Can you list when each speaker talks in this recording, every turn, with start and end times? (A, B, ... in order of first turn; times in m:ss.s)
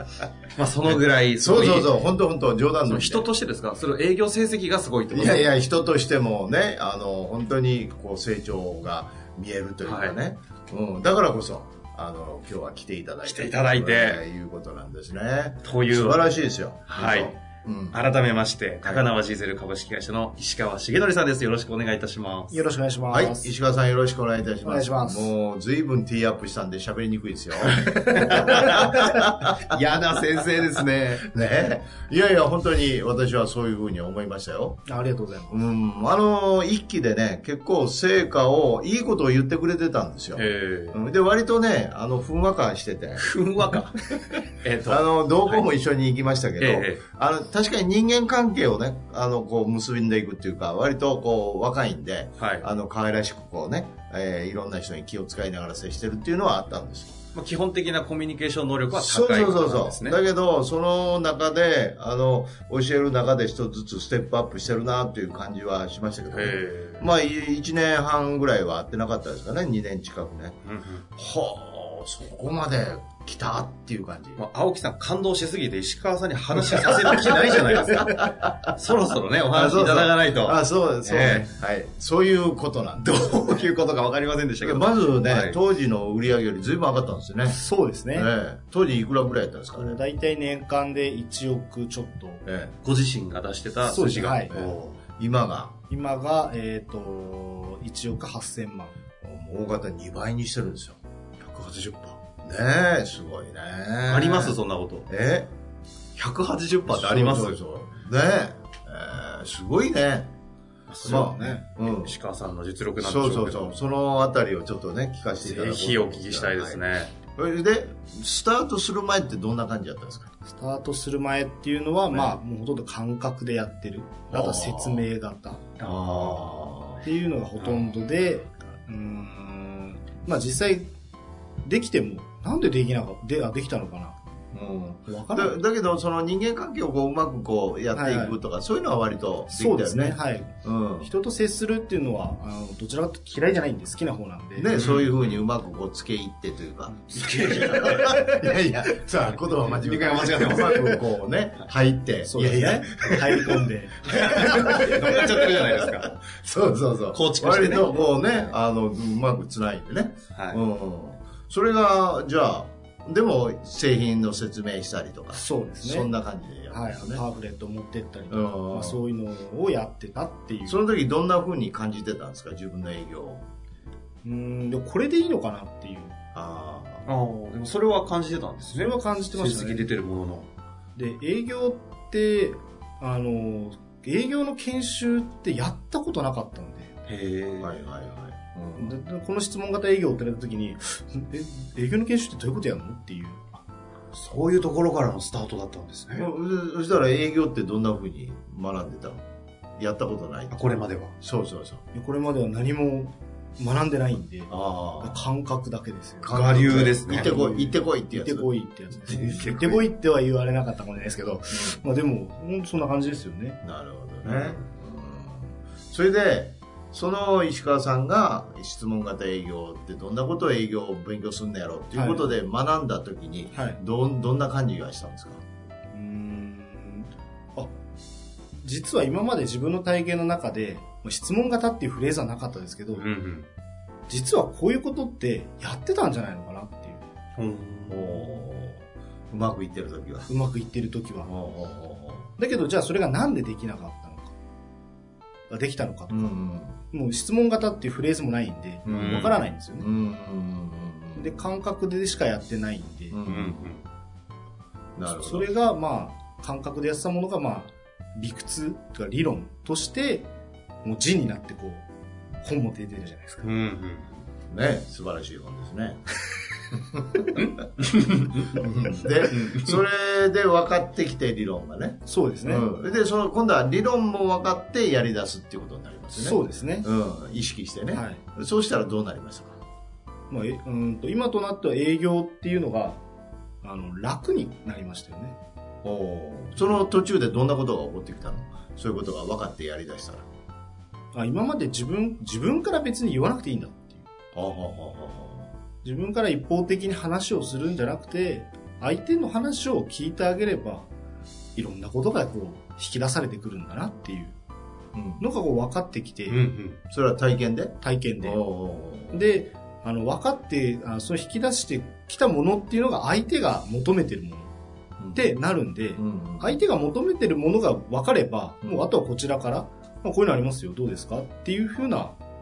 0:00.6-0:02.0 A
0:00.8-0:03.3 B
0:02.9-0:05.5 A
0:05.1-0:18.0 B
0:09.8-0:10.2 A
0:13.2-0:14.2 A
0:15.6-0:17.4 A
0:17.9-0:22.6 A
0:22.5-0:23.5 C
0:23.1-0:29.6 B
0:24.6-0:25.3 C
0:27.6-0:31.2 A
0:30.5-0:34.8 B
0:34.8-0:35.6 C
0:35.5-0:43.2 B
0:40.4-0:41.0 A
0:43.2-0:45.6 A
0:44.8-0:57.2 B
0:46.6-0:47.0 A
0:52.4-0:52.7 A
0:57.3-1:00.2 A
0:58.9-1:10.6 B
1:06.3-1:07.1 A
1:10.6-1:11.0 A
1:11.2-1:14.4 B
1:14.4-1:21.5 A
1:16.7-1:18.7 B
1:19.5-1:23.7 B
1:23.0-1:25.6 A
1:24.6-1:27.6 B
1:27.5-1:28.3 C
1:28.1-1:30.0 B
1:29.8-1:32.4 C
1:32.4-1:32.7 B
1:32.8-1:35.0 A
1:33.8-1:34.5 C
1:34.5-1:35.8 B
1:35.9-1:39.0 C
1:39.2-1:41.0 B
1:41.4-1:42.2 A
1:42.4-1:45.5 B
1:44.0-1:45.1 A
1:46.2-1:47.6 A
1:46.9-1:50.3 B
1:50.9-1:53.7 A
1:51.0-1:52.2 B
1:51.1-1:51.6 C
1:53.0-2:00.3 B
1:55.4-1:57.1 A
2:00.4-2:05.7 C
2:02.1-2:02.4 B
2:04.3-2:05.1 B
2:05.8-2:06.5 A
2:05.8-2:07.8 B
2:07.0-2:10.9 C
2:11.6-2:14.2 C
2:14.5-2:21.1 B
2:15.0-2:15.6 C
2:17.9-2:18.4 C
2:19.5-2:24.8 C
2:24.6-2:47.2 B
2:24.7-2:25.4 A
2:27.1-2:28.1 A
2:27.5-2:28.3 C
2:29.6-2:30.9 A
2:30.5-2:30.9 C
2:32.2-2:35.1 C
2:34.1-2:36.1 A
2:37.1-2:38.1 A
2:40.3-2:40.6 A
2:45.3-2:46.1 C
2:46.7-2:50.8 C
2:48.3-2:49.0 B
2:50.6-2:53.4 B
2:54.2-2:56.2 C
2:56.3-2:57.0 B
2:57.0-3:00.5 A
2:58.7-2:59.9 C
3:01.0-3:07.0 C
3:07.1-3:07.7 A
3:07.6-3:09.0 B
3:08.8-3:13.4 C
3:14.1-3:16.3 A
3:16.1-3:19.2 B
3:19.8-3:20.6 B
3:20.5-3:21.1 A
3:21.2-3:21.8 B
3:21.9-3:33.6 C
3:24.5-3:25.3 B
3:26.2-3:29.9 B
3:26.3-3:27.3 A
3:31.5-3:31.8 B
3:33.6-3:45.4 B
3:34.2-3:34.6 A
3:41.9-3:42.3 C
3:43.5-3:43.8 C
3:45.9-3:47.7 C
3:48.5-3:53.1 C
3:52.9-3:53.5 A
3:54.1-3:57.0 C
3:57.4-3:58.3 A
3:57.9-4:00.3 B
4:00.3-4:01.3 C
4:01.2-4:02.3 B
4:02.4-4:04.3 C
4:05.5-4:09.9 C
4:06.1-4:06.8 B
4:08.8-4:11.5 B
4:08.8-4:09.4 A
4:11.2-4:13.2 C
4:13.1-4:13.8 B
4:13.2-4:13.8 A
4:15.0-4:15.5 B
4:15.0-4:20.3 C
4:20.8-4:21.9 C
4:22.4-4:23.4 C
4:23.4-4:24.2 A
4:24.5-4:26.0 B
4:27.8-4:29.8 A
4:28.5-4:39.6 B
4:32.0-4:32.7 C
4:36.1-4:36.9 C
4:37.9-4:38.2 C
4:40.3-4:43.0 C
4:43.6-4:45.4 C
4:45.8-4:50.2 B
4:51.1-4:54.0 C
4:54.3-4:55.5 B
4:55.8-5:00.9 C
5:01.5-5:04.4 C
5:04.9-5:05.2 B
5:05.2-5:06.4 C
5:06.3-5:06.8 A
5:06.9-5:09.3 B
5:07.8-5:08.5 C
5:09.1-5:14.5 C
5:15.0-5:15.3 B
5:15.1-5:22.2 C
5:15.9-5:16.6 B